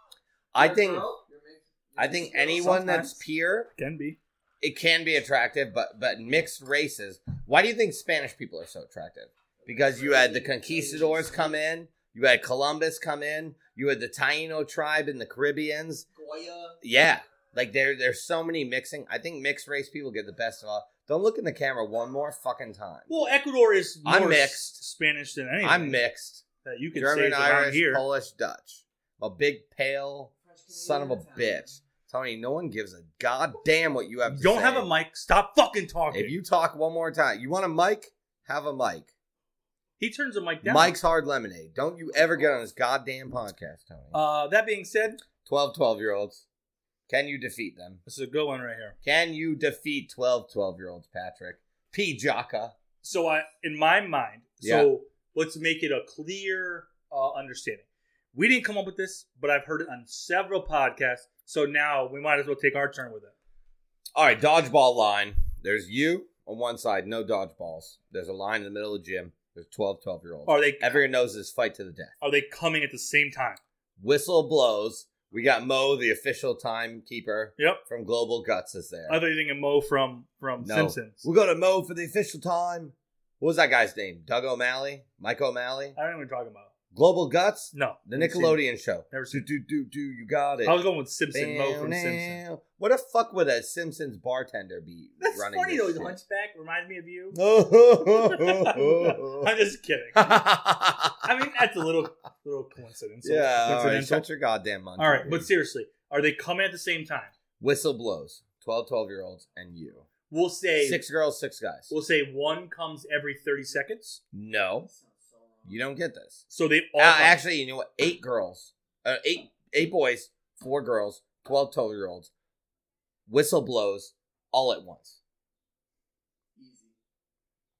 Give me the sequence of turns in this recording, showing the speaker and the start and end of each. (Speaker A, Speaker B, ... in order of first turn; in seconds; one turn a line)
Speaker A: 0.5-1.1
Speaker B: 0.6-2.8
Speaker A: 2.0-3.7
Speaker C: 2.6-3.2
Speaker C: 3.8-4.2
Speaker A: 4.6-16.1
Speaker B: 9.6-11.6
Speaker B: 16.1-16.8
Speaker A: 16.8-23.4
Speaker C: 23.1-26.0
Speaker A: 24.1-24.8
Speaker A: 25.6-26.4
Speaker C: 26.6-28.0
Speaker A: 27.0-34.9
Speaker B: 30.4-31.8
Speaker C: 34.3-36.3
Speaker A: 36.1-39.1
Speaker C: 40.0-40.9
Speaker A: 40.6-44.2
Speaker C: 44.1-45.2
Speaker A: 45.5-46.5
Speaker A: 47.1-48.0
Speaker C: 48.1-49.0
Speaker A: 49.0-52.8
Speaker C: 53.0-63.4
Speaker A: 54.6-54.9
Speaker A: 64.2-72.1
Speaker C: 70.5-71.0
Speaker C: 72.2-73.6
Speaker A: 74.0-79.2
Speaker C: 79.1-81.2
Speaker A: 80.6-86.0
Speaker C: 86.0-86.7
Speaker A: 86.9-96.2
Speaker C: 87.7-88.6
Speaker C: 89.1-89.5
Speaker C: 90.7-92.4
Speaker C: 95.2-97.4
Speaker A: 97.3-99.5
Speaker C: 98.0-100.4
Speaker A: 100.2-101.5
Speaker C: 101.2-104.3
Speaker A: 103.2-105.5
Speaker C: 105.0-107.3
Speaker A: 107.6-110.1
Speaker C: 110.3-111.0
Speaker A: 110.8-111.9
Speaker C: 111.9-114.2
Speaker A: 114.3-114.9
Speaker B: 114.8-115.8
Speaker A: 115.7-116.4
Speaker C: 116.5-117.4
Speaker A: 117.0-122.3
Speaker A: 123.3-125.2
Speaker B: 126.6-127.0